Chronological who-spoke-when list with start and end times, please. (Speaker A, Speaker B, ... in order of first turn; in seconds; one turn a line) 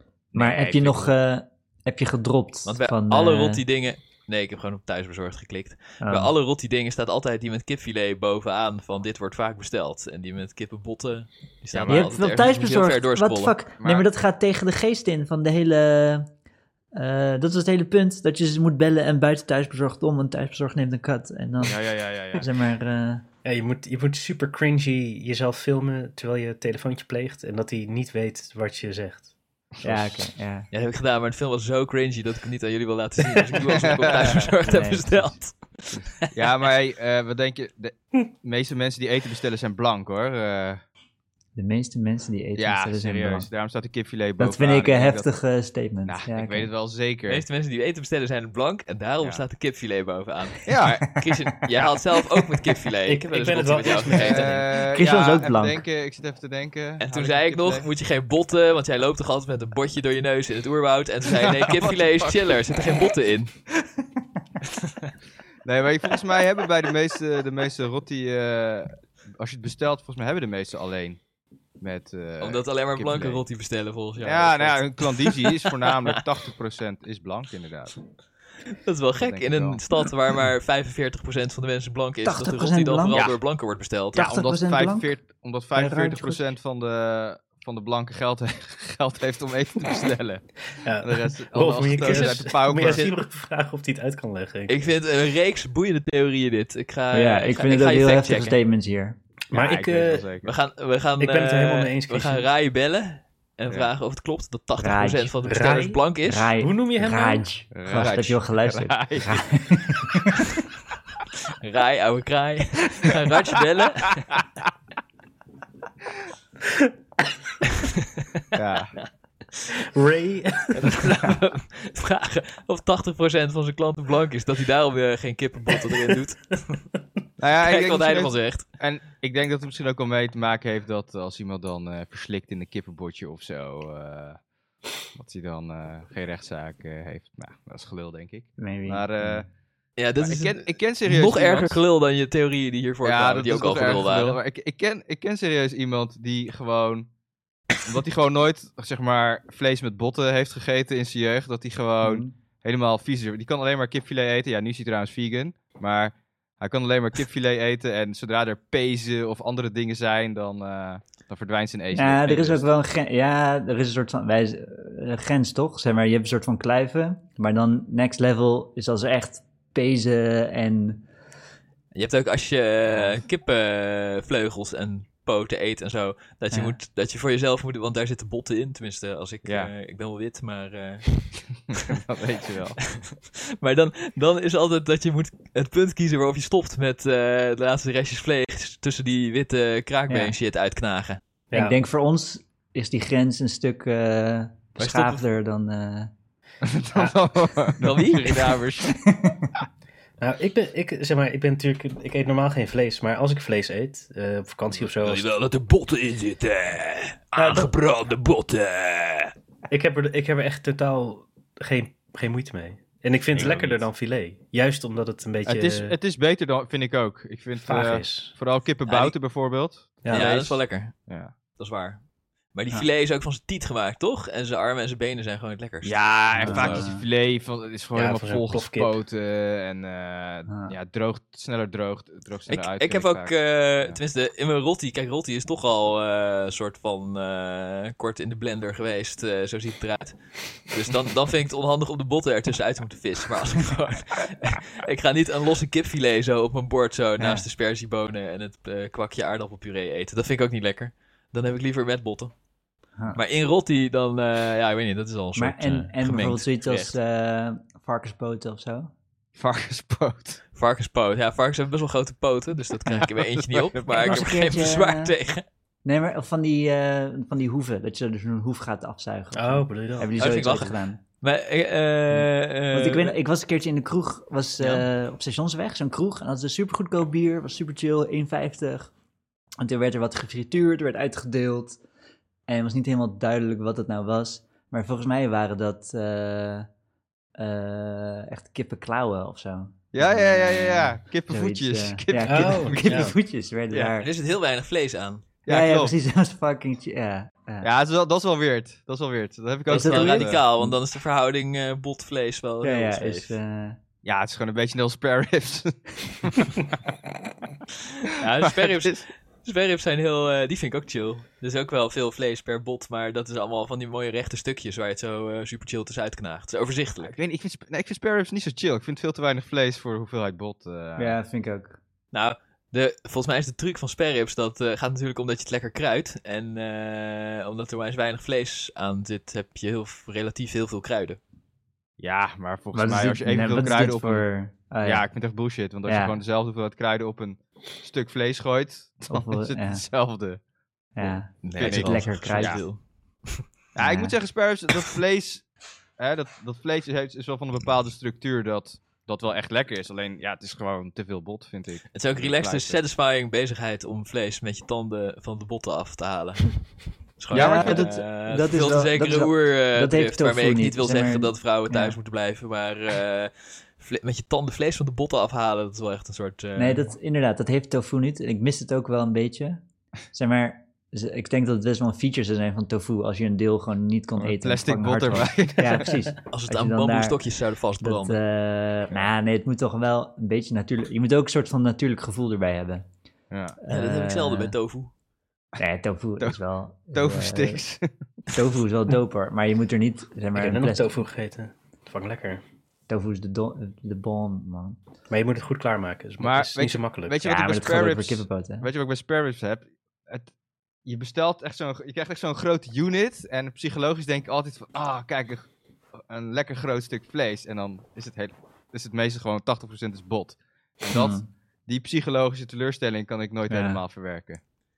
Speaker A: 0.3-1.1
Speaker B: 0.3-3.6
Speaker C: 2.6-13.5
Speaker B: 6.0-6.3
Speaker A: 11.7-12.1
Speaker B: 11.9-16.3
Speaker A: 13.8-14.1
Speaker B: 16.9-21.8
Speaker A: 21.6-22.5
Speaker B: 22.3-23.2
Speaker D: 23.4-29.3
Speaker A: 29.8-30.3
Speaker B: 29.8-30.7
Speaker C: 30.7-36.3
Speaker A: 33.8-34.5
Speaker B: 34.6-35.4
Speaker A: 36.3-40.8
Speaker B: 41.5-43.5
Speaker A: 42.6-45.3
Speaker B: 44.4-46.7
Speaker A: 46.0-47.4
Speaker C: 47.3-54.6
Speaker A: 50.6-51.2
Speaker D: 53.1-54.7
Speaker A: 54.1-57.9
Speaker B: 54.7-55.8
Speaker C: 57.0-63.5
Speaker A: 61.4-62.6
Speaker C: 64.7-65.1
Speaker A: 65.7-71.2
Speaker A: 71.8-73.4
Speaker C: 72.4-75.5
Speaker A: 74.2-78.0
Speaker C: 78.7-84.3
Speaker A: 79.2-79.8
Speaker B: 82.2-83.2
Speaker A: 83.1-83.4
Speaker B: 84.2-85.2
Speaker A: 84.2-93.1
Speaker B: 85.7-86.4
Speaker D: 90.8-94.7
Speaker C: 94.7-98.6
Speaker B: 97.1-99.2
Speaker D: 99.5-100.2
Speaker A: 99.5-100.5
Speaker C: 100.4-106.5
Speaker D: 101.2-102.5
Speaker B: 104.8-105.3
Speaker D: 105.4-106.0
Speaker B: 106.2-110.4
Speaker D: 106.6-107.4
Speaker A: 107.7-109.4
Speaker C: 111.6-114.4
Speaker C: 117.6-118.4
Speaker A: 118.5-119.0
Speaker D: 119.9-121.0
Speaker C: 120.7-126.8
Speaker A: 127.4-134.4
Speaker C: 127.6-128.7
Speaker A: 135.1-139.5
Speaker B: 138.6-139.5
Speaker C: 140.0-144.4
Speaker A: 140.2-141.8
Speaker A: 143.0-147.1
Speaker A: 147.8-162.6
Speaker B: 152.0-152.3
Speaker B: 161.9-171.1
Speaker C: 171.9-181.3
Speaker A: 179.4-179.7
Speaker A: 181.9-182.8
Speaker C: 182.9-191.2
Speaker B: 190.1-190.3
Speaker D: 191.5-191.8
Speaker B: 191.5-196.1
Speaker C: 194.8-195.2
Speaker A: 196.6-199.0
Speaker C: 197.8-198.6
Speaker B: 199.0-199.5
Speaker D: 200.2-205.3
Speaker C: 205.0-209.3
Speaker D: 207.4-207.7
Speaker D: 209.7-215.9
Speaker A: 213.3-213.8
Speaker A: 215.5-220.5
Speaker D: 217.7-218.3
Speaker C: 218.8-219.2
Speaker D: 220.0-220.5
Speaker C: 220.1-221.0
Speaker A: 221.1-221.3
Speaker C: 221.5-226.9
Speaker A: 225.8-234.0
Speaker B: 226.3-227.0
Speaker D: 227.9-229.0
Speaker B: 230.5-230.7
Speaker C: 232.5-252.3
Speaker B: 247.2-247.5
Speaker C: 253.1-257.0
Speaker B: 255.3-258.9
Speaker A: 259.4-260.4
Speaker C: 260.5-265.4
Speaker A: 263.4-264.2
Speaker B: 263.9-265.1
Speaker B: 265.8-271.0
Speaker D: 269.3-270.5
Speaker C: 270.1-273.1
Speaker B: 272.7-278.9
Speaker B: 279.6-281.8
Speaker B: 282.5-286.7
Speaker B: 287.4-294.1
Speaker A: 289.9-293.1
Speaker D: 292.2-293.1
Speaker C: 294.0-295.2
Speaker A: 295.5-296.0
Speaker B: 295.5-297.7
Speaker A: 297.6-300.4
Speaker B: 299.7-300.8
Speaker C: 299.7-303.3
Speaker B: 302.6-303.8
Speaker A: 304.0-306.6
Speaker C: 308.1-317.1
Speaker A: 308.5-309.1
Speaker A: 317.1-321.1
Speaker B: 321.0-321.8
Speaker C: 322.1-331.2
Speaker A: 332.0-334.3
Speaker B: 332.7-335.1
Speaker A: 334.8-340.4
Speaker B: 335.9-336.1
Speaker B: 339.1-339.9
Speaker A: 340.9-342.6
Speaker B: 341.0-342.6
Speaker C: 341.4-343.4
Speaker A: 343.8-352.8
Speaker B: 343.8-344.1
Speaker C: 351.9-366.9
Speaker B: 357.3-362.0
Speaker A: 357.3-358.0
Speaker B: 366.6-369.6
Speaker B: 370.1-377.2
Speaker A: 374.2-376.0
Speaker C: 376.3-378.2
Speaker B: 377.8-382.9
Speaker A: 383.3-383.6
Speaker B: 383.6-384.5
Speaker C: 383.7-384.9
Speaker B: 385.6-387.6
Speaker A: 386.9-387.9
Speaker B: 388.4-391.0
Speaker D: 390.4-392.4
Speaker B: 392.9-394.8
Speaker D: 395.1-397.2
Speaker A: 396.2-400.3
Speaker B: 397.2-398.7
Speaker A: 400.9-405.5
Speaker A: 406.1-414.4
Speaker B: 410.9-411.3
Speaker B: 413.5-413.8